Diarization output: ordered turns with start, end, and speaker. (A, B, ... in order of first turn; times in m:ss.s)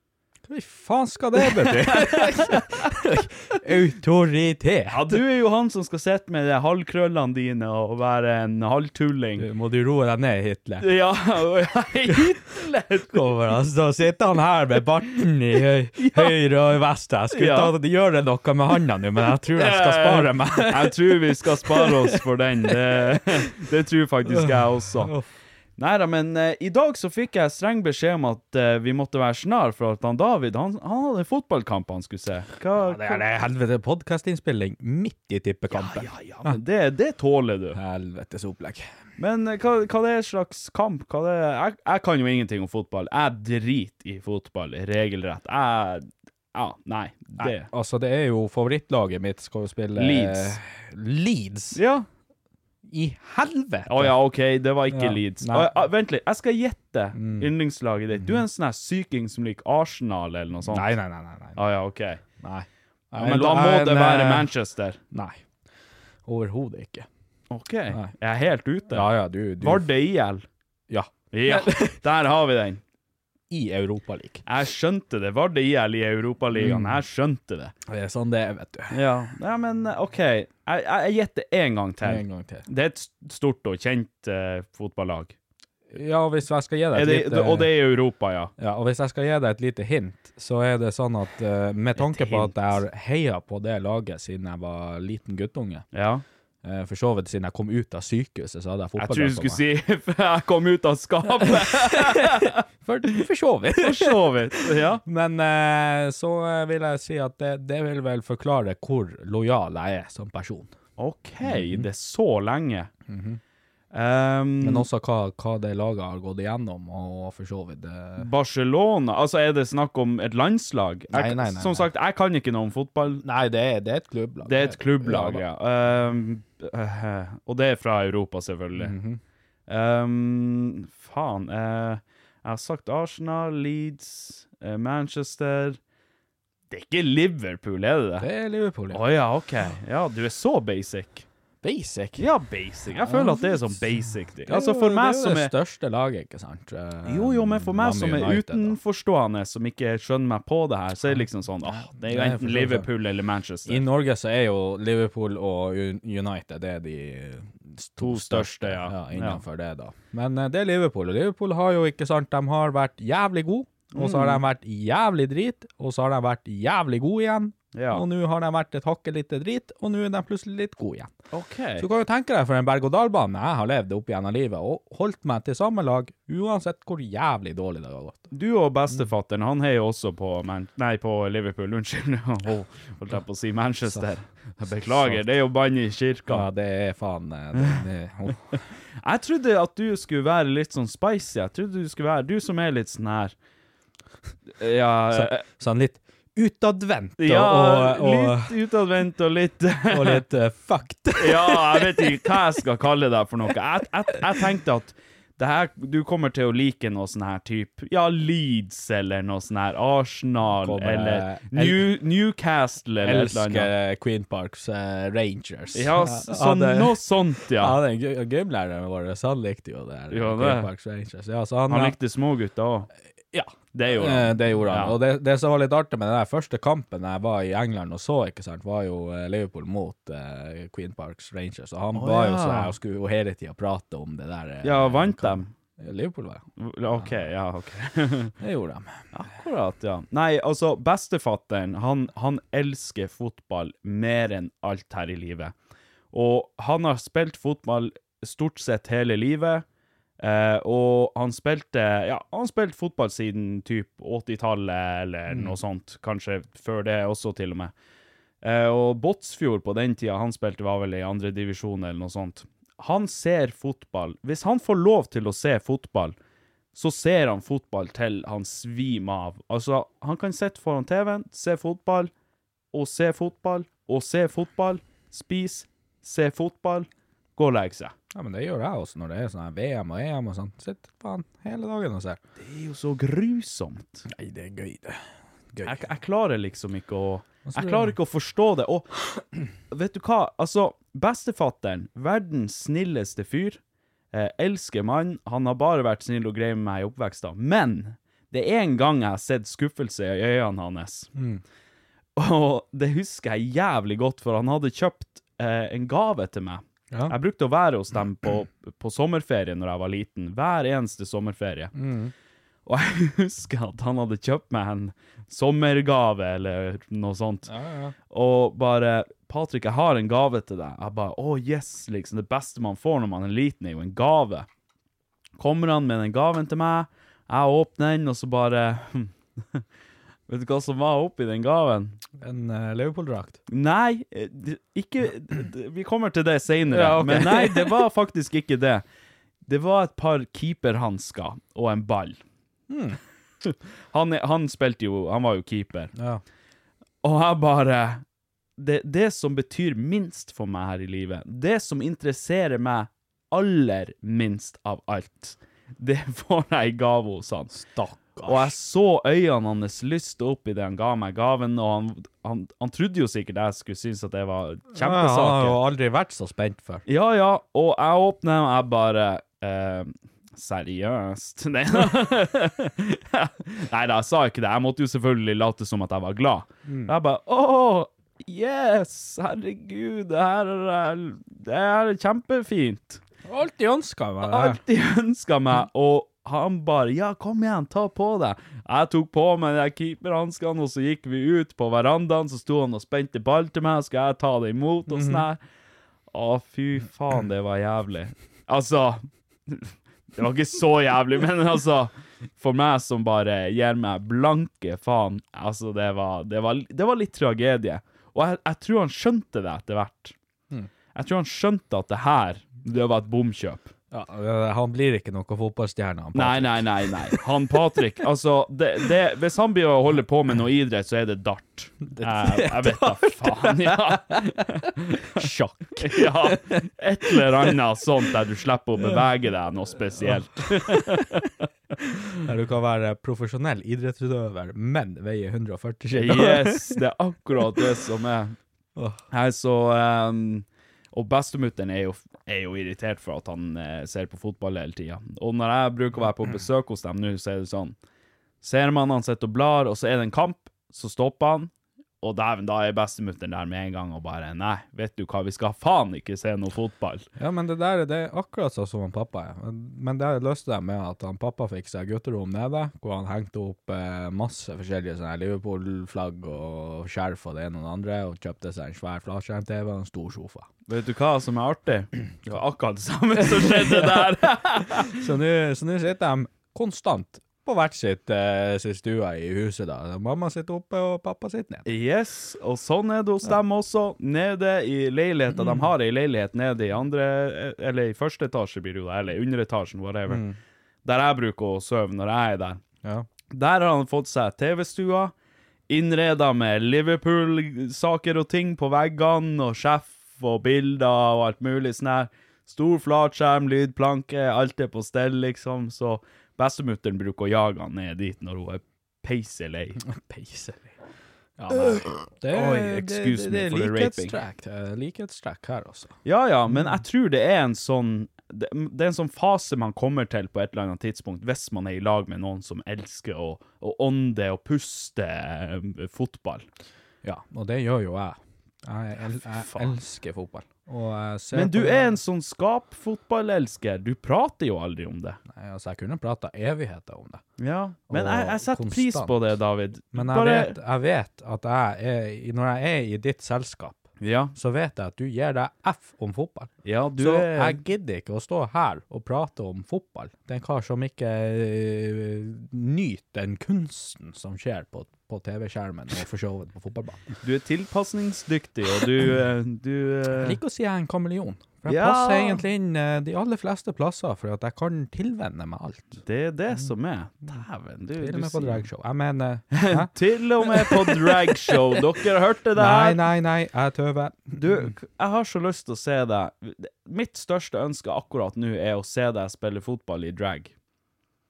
0:00.5-0:05.2 A
0:01.4-0:03.0 B
0:04.9-0:09.4 B
0:09.4-0:10.8 A
0:10.8-0:13.3 B
0:13.1-0:22.2 A
0:16.0-0:16.4 B
0:17.3-0:17.7 B
0:19.4-0:25.1 B
0:24.3-0:25.2 A
0:25.8-0:33.2 B
0:32.8-0:36.6 A
0:35.7-0:37.8 B
0:37.7-0:38.8 A
0:39.2-0:47.7 B
0:47.4-0:51.8 A
0:50.0-0:50.6 B
0:51.7-0:52.1 B
0:52.9-0:54.2 A
0:53.9-1:00.9 B
0:54.9-0:55.7 A
0:57.1-0:57.5 A
1:00.7-1:01.6 A
1:01.6-1:02.2 B
1:02.4-1:04.5 A
1:03.2-1:05.0 B
1:05.1-1:05.4 A
1:06.2-1:07.1 A
1:07.5-1:09.1 B
1:08.9-1:09.9 A
1:09.6-1:10.4 B
1:10.9-1:12.0 A
1:11.3-1:12.8 B
1:13.5-1:14.4 A
1:14.4-1:17.7 B
1:16.5-1:17.0 A
1:17.9-1:19.0 A
1:18.9-1:25.3 B
1:22.0-1:22.6 A
1:25.9-1:27.7 A
1:26.9-1:28.5 B
1:28.6-1:35.8 A
1:32.0-1:32.8 B
1:35.9-1:36.2 B
1:36.6-1:39.6 A
1:39.0-1:42.6 B
1:41.5-1:50.7 A
1:43.8-1:45.0 B
1:51.0-1:52.9 B
1:51.4-1:51.9 A
1:53.1-1:53.4 A
1:53.9-1:54.9 B
1:54.6-1:58.3 A
1:58.2-2:03.2 B
2:01.1-2:01.9 A
2:03.2-2:05.4 A
2:04.4-2:08.9 B
2:08.8-2:09.2 A
2:09.7-2:15.8 B
2:16.7-2:18.3 B
2:18.2-2:19.0 A
2:18.9-2:21.2 B
2:21.6-2:22.3 A
2:22.2-2:25.5 B
2:23.0-2:23.8 A
2:24.5-2:28.8 A
2:27.0-2:33.8 B
2:31.1-2:32.9 A
2:33.7-2:51.1 A
2:38.0-2:39.4 B
2:43.9-2:44.4 B
2:47.7-2:48.0 B
2:51.3-2:51.8 B
2:51.8-2:58.3 A
2:58.3-3:06.5 B
3:04.6-3:05.2 A
3:06.3-3:08.6 A
3:07.5-3:07.8 B
3:09.0-3:13.3 B
3:14.6-3:15.4 B
3:15.1-3:18.5 A
3:17.2-3:20.2 B
3:19.9-3:22.4 A
3:21.2-3:33.7 B
3:30.6-3:31.9 A
3:33.0-3:42.0 A
3:35.7-3:37.8 B
3:40.1-3:40.7 B
3:41.7-3:42.9 B
3:43.3-3:57.1 A
3:43.7-3:45.0 B
3:51.9-3:52.7 B
3:54.6-3:55.5 B
3:56.6-3:58.3 B
3:58.4-3:58.9 A
3:59.1-4:05.5 B
4:06.1-4:09.6 B
4:10.2-4:17.7 B
4:15.3-4:15.6 A
4:18.4-4:26.2 B
4:26.7-4:32.1 B
4:32.7-4:37.9 B
4:38.1-4:42.2 A
4:42.4-4:44.1 B
4:44.1-4:45.8 A
4:45.6-4:48.9 B
4:47.4-4:48.0 A
4:49.7-4:53.6 B
4:54.1-5:01.1 B
5:01.1-5:01.4 A
5:02.2-5:11.7 B
5:11.7-5:12.1 A
5:12.6-5:17.5 B
5:17.5-5:17.9 A
5:18.1-5:24.5 B
5:25.4-5:29.6 B
5:30.3-5:32.0 B
5:32.2-5:33.4 A
5:33.5-5:38.8 B
5:36.7-5:37.8 A
5:39.4-5:42.2 B
5:42.7-5:43.0 A
5:43.4-5:45.9 B
5:46.0-5:46.2 A
5:47.0-5:48.0 B
5:48.6-5:57.6 B
5:57.5-5:58.5 A
5:58.2-6:05.6 B
6:04.7-6:06.8 A
6:06.8-6:23.0 B
6:16.7-6:16.9 A
6:23.2-6:24.6 A
6:24.2-6:35.4 B
6:34.9-6:35.2 A
6:36.1-6:50.1 B
6:50.9-6:53.7 B
6:53.9-6:57.2 A
6:56.1-7:11.5 B
7:01.8-7:04.4 A
7:05.0-7:07.5 A
7:10.0-7:11.0 A
7:12.2-7:16.8 A
7:15.9-7:18.4 B
7:19.1-7:27.8 B
7:28.4-7:31.5 B
7:32.0-7:37.0 B
7:37.2-7:50.5 A
7:50.7-7:55.0 B
7:54.8-8:01.6 A
8:01.6-8:10.2 B
8:05.3-8:05.7 A
8:10.1-8:10.4 A
8:10.8-8:12.6 B
8:13.3-8:15.1 B
8:15.7-8:29.8 B
8:29.8-8:30.7 A
8:31.4-8:36.0 A
8:31.5-8:34.2 B
8:36.0-8:46.4 B
8:36.5-8:36.8 A
8:47.0-8:51.9 A
8:49.1-8:49.8 B
8:51.3-8:55.2 B
8:55.3-8:57.2 A
8:57.4-9:00.6 B
8:57.9-8:59.2 A
8:59.9-9:17.0 A
9:04.0-9:04.3 B
9:06.6-9:07.6 B
9:17.2-9:20.4 B
9:20.1-9:26.0 A
9:21.6-9:22.4 B
9:26.0-9:28.7 B
9:28.0-9:29.9 A
9:29.5-9:33.0 B
9:30.4-9:31.8 A
9:32.6-9:34.7 A
9:34.4-9:40.5 B